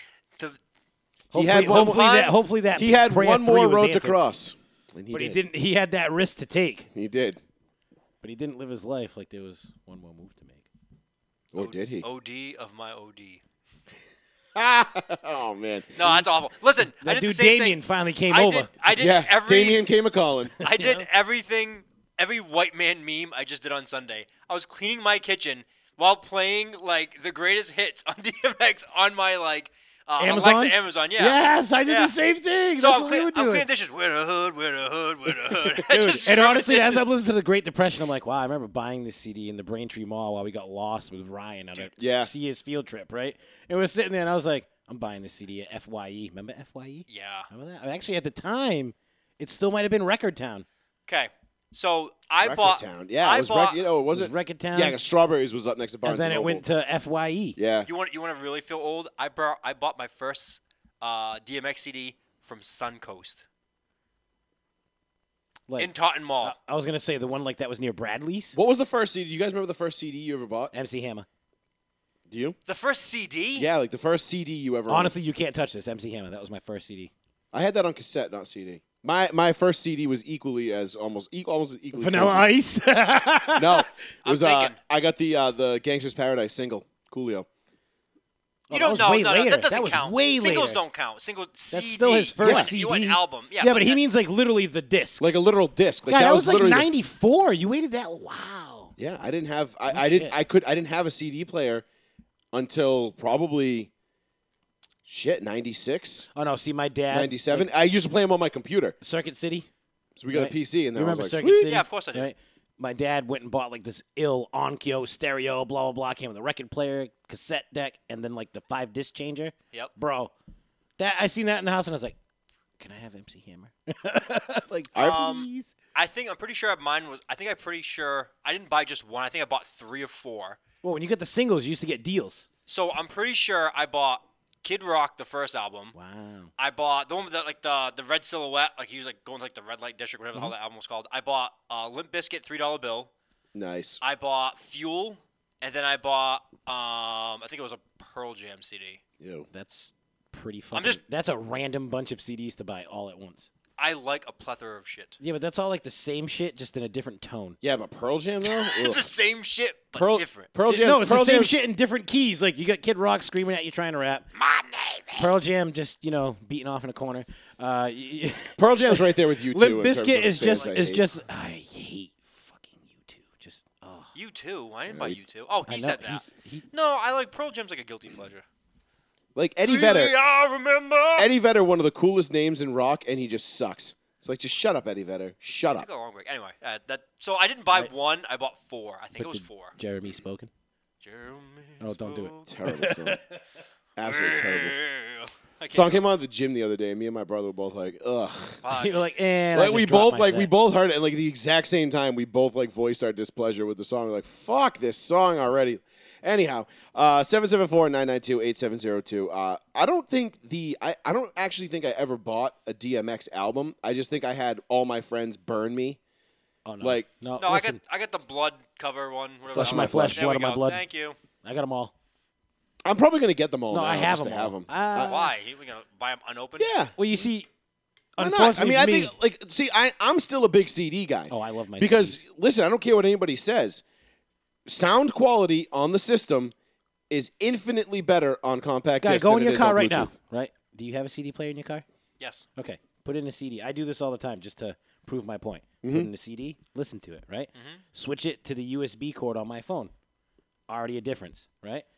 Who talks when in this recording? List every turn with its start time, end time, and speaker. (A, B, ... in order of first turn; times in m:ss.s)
0:01.3-0:04.2 A
0:01.3-0:02.1 B
0:01.6-0:02.4 C
0:02.7-0:05.4 B
0:05.1-0:06.9 A
0:06.9-0:07.4 B
0:08.2-0:10.7 A
0:11.5-0:12.1 B
0:11.6-0:13.4 C
0:14.5-0:16.2 B
0:16.0-0:19.8 C
0:17.0-0:18.7 A
0:18.9-0:20.5 B
0:20.6-0:32.1 C
0:20.7-0:21.0 A
0:30.2-0:33.7 A
0:32.8-0:37.1 C
0:35.9-0:50.6 A
0:42.0-0:42.3 B
0:47.1-0:47.5 C
0:51.1-0:53.8 C
0:52.4-0:56.6 B
0:54.1-0:55.0 A
0:56.0-0:57.6 A
0:57.6-0:57.9 B
0:57.8-1:03.4 C
1:05.8-1:06.5 C
1:06.4-1:08.6 A
1:08.5-1:10.7 B
1:10.7-1:11.2 A
1:12.3-1:12.6 B
1:12.7-1:13.7 C
1:13.5-1:15.1 B
1:14.9-1:17.1 A
1:17.5-1:22.5 B
1:21.9-1:23.8 A
1:23.6-1:27.5 B
1:24.2-1:24.8 C
1:28.7-1:30.8 A
1:28.7-1:34.0 C
1:31.7-1:35.2 A
1:32.4-1:32.7 B
1:35.2-1:36.9 B
1:36.1-1:38.9 A
1:39.0-1:41.8 B
1:39.9-1:40.4 A
1:42.5-1:43.9 B
1:45.1-1:46.3 B
1:46.3-1:47.7 A
1:47.1-1:49.0 B
1:49.0-1:49.7 A
1:50.2-1:51.8 B
1:50.3-2:00.3 A
1:51.7-1:52.3 C
2:01.0-2:02.2 A
2:02.8-2:05.7 A
2:04.9-2:05.2 B
2:05.0-2:10.6 C
2:10.8-2:12.4 A
2:12.7-2:16.0 C
2:15.9-2:16.5 A
2:16.6-2:23.1 C
2:23.5-2:24.0 B
2:24.0-2:29.0 C
2:29.2-2:29.5 B
2:29.5-2:33.5 A
2:30.7-2:31.0 C
2:33.8-2:35.2 C
2:35.2-2:37.6 A
2:37.6-2:39.0 B
2:38.4-2:40.5 C
2:40.0-2:41.6 B
2:40.7-2:44.2 A
2:44.3-2:45.4 C
2:45.1-2:54.1 A
2:48.6-2:51.0 B
2:50.4-2:50.7 C
2:54.1-2:58.4 C
2:54.9-2:55.2 B
2:55.7-2:56.6 A
2:59.3-3:00.1 B
2:59.6-3:01.3 C
3:01.2-3:05.9 B
3:05.7-3:09.7 C
3:09.2-3:10.5 A
3:11.0-3:12.5 C
3:11.8-3:13.4 A
3:12.5-3:13.2 B
3:14.0-3:14.8 B
3:14.0-3:16.0 C
3:15.7-3:18.6 B
3:18.6-3:19.1 C
3:18.7-3:20.5 A
3:19.5-3:36.0 B
3:36.6-3:37.8 A
3:36.8-3:37.1 B
3:37.4-3:41.2 C
3:39.5-3:40.2 B
3:39.5-3:40.8 A
3:41.4-3:41.9 A
3:42.8-3:45.2 B
3:43.7-3:45.3 A
3:45.0-3:46.7 C
3:46.6-3:46.9 B
3:47.0-3:47.5 A
3:48.2-3:49.1 A
3:48.2-3:53.8 B
3:51.3-3:52.2 A
3:54.6-3:56.5 B
3:57.1-4:00.1 B
3:59.0-4:01.8 A
4:02.2-4:02.5 C
4:02.6-4:09.9 A
4:05.8-4:06.1 B
4:07.5-4:07.8 C
4:10.7-4:11.8 A